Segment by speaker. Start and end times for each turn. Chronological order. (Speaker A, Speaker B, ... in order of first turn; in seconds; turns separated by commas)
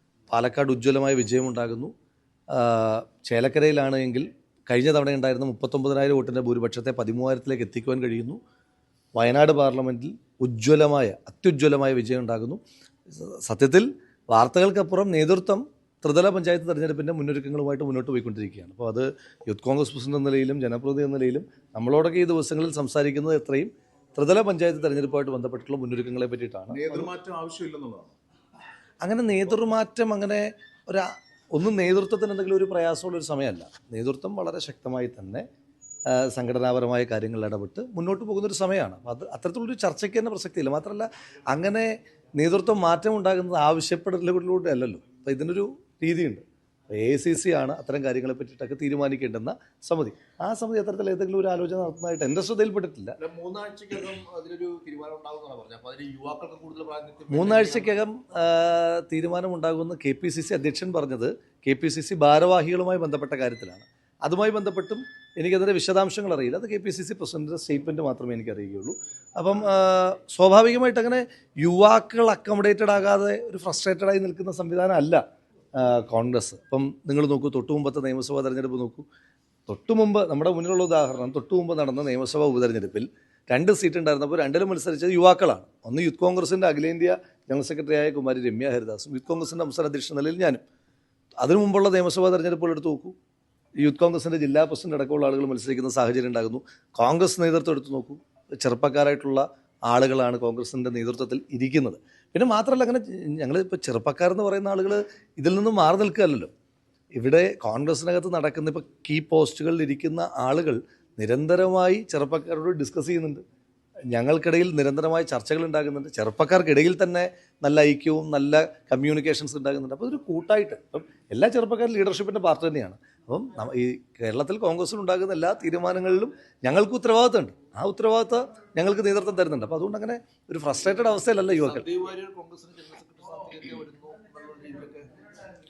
Speaker A: 0.3-1.9, Speaker A: 2.5-8.4, Speaker A: 9.2-27.1, Speaker B: 26.7-28.1, Speaker A: 29.0-35.5, Speaker A: 36.1-53.2, Speaker B: 53.2-58.0, Speaker A: 57.3-75.2, Speaker A: 75.8-79.1, Speaker A: 79.7-90.6, Speaker A: 91.4-93.2, Speaker A: 93.8-106.5, Speaker A: 107.2-113.4, Speaker A: 114.1-131.9, Speaker B: 131.4-135.1